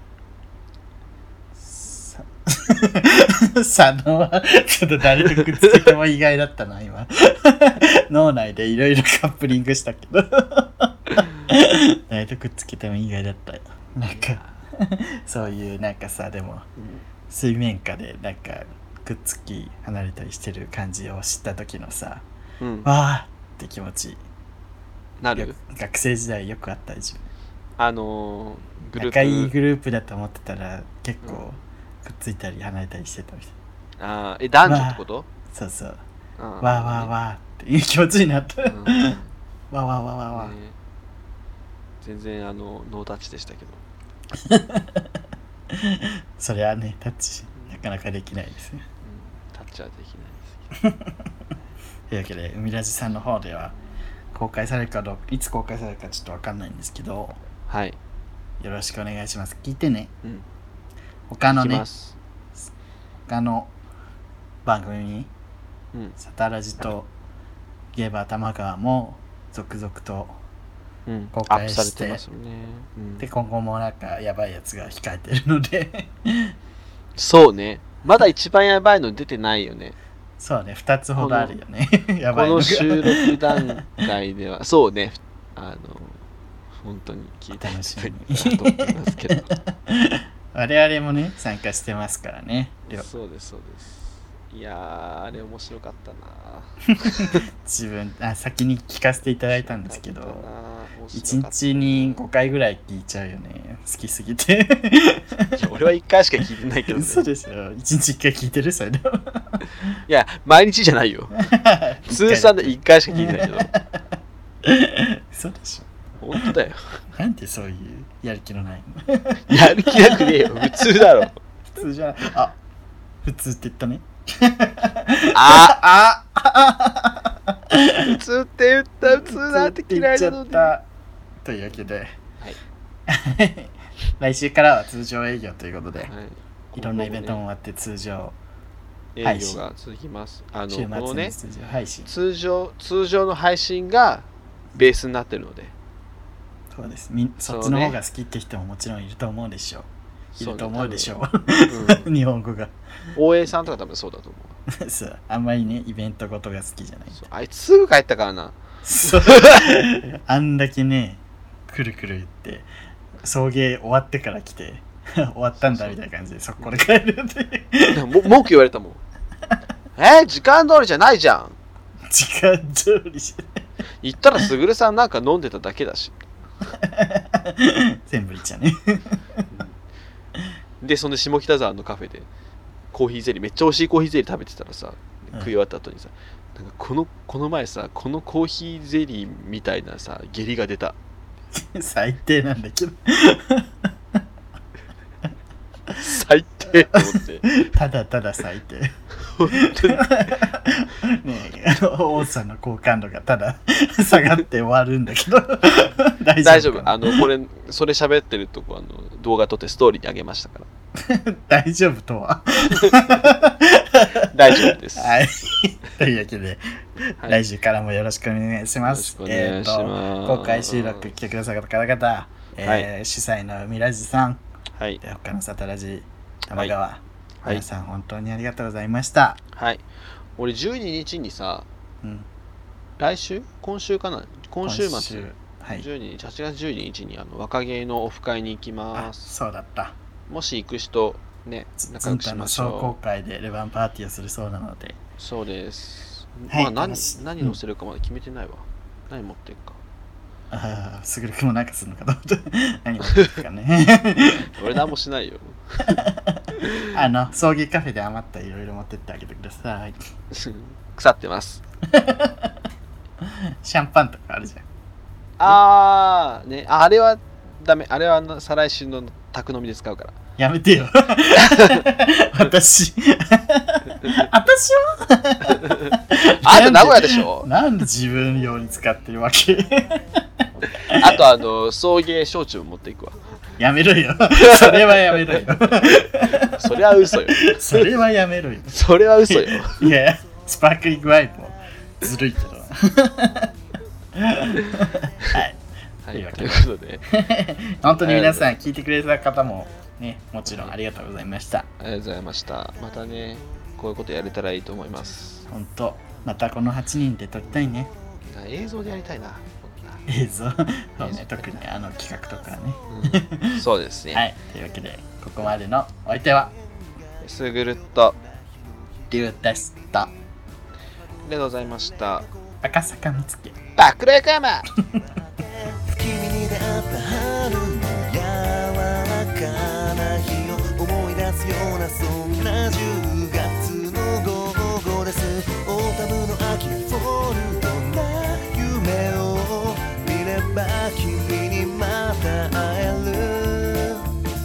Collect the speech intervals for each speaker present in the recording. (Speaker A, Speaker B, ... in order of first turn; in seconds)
Speaker A: 1.6-16.7, 17.3-22.3, 22.8-24.2, 25.4-27.2, 28.9-33.5, 34.6-36.0, 36.6-39.2, 39.7-40.5, 44.4-48.8, 50.8-51.2, 52.1-53.7, 54.3-57.4, 58.6-60.1, 61.3-61.9, 63.3-63.7, 64.6-65.3, 66.2-67.1, 67.9-70.4, 71.3-72.2, 73.2-76.5, 80.4-83.6, 87.6-93.1, 97.0-100.5, 101.1-105.6, 106.9-109.9, 111.3-114.0, 114.6-116.5, 117.2-120.7, 121.7-122.6, 123.2-128.2, 129.0-130.8, 131.4-132.1, 133.1-136.1, 136.7-138.4, 139.2-139.6, 140.7-142.1, 146.7-149.9, 150.4-152.7, 154.7-157.2, 158.8-162.7, 163.2-168.3, 172.1-173.6, 176.7-179.4, 191.5-194.2, 196.7-207.3, 210.9-224.4, 225.0-229.4, 232.0-232.3, 234.6-235.8, 238.9-239.9, 241.8-245.0, 246.5-247.6, 250.5-254.6, 255.9-260.0, 261.9-262.5, 263.2-264.6, 270.4-280.2, 280.9-281.3, 283.6-293.5, 294.1-301.7, 305.5-307.9, 310.1-316.5, 319.1-320.1, 322.6-323.6
Speaker B: 14.0-14.6, 22.6-22.9, 25.2-25.6, 27.8-29.5, 34.0-35.3, 36.4-37.1, 38.6-39.3, 40.3-40.7, 42.0-43.8, 49.0-50.6, 57.7-58.0, 61.5-62.1, 71.1-73.3, 77.2-80.0, 81.2-81.5, 82.3-86.2, 86.8-89.5, 92.9-97.4, 99.5-102.2, 105.5-107.3, 110.1-111.5, 112.1-113.7, 116.2-117.0, 119.5-121.4, 125.3-125.8, 128.0-130.7, 136.0-137.4, 139.1-141.3, 142.1-145.7, 147.4-148.0, 150.3-151.2, 151.7-152.1, 153.1-154.6, 157.1-159.8, 165.6-166.0, 167.9-169.0, 169.9-171.6, 174.0-176.3, 180.8-182.3, 182.9-190.9, 196.0-197.6, 199.3-200.3, 206.4-210.7, 212.7-213.0, 214.3-215.2, 218.8-221.1, 224.7-225.0, 229.6-229.8, 230.4-231.7, 233.0-239.3, 240.3-242.9, 245.2-249.8, 254.4-256.0, 256.6-256.9, 260.3-261.6, 265.4-270.2, 271.4-271.8, 275.6-275.9, 276.4-277.5, 280.9-283.2, 284.4-285.3, 285.9-287.9, 288.7-289.9, 296.1-297.0, 298.0-298.5, 300.5-300.7, 301.8-305.4, 308.3-310.1, 311.0-311.4, 312.9-314.2, 317.2-318.2, 321.2-322.3, 323.8-324.7
Speaker C: 325.4-344.1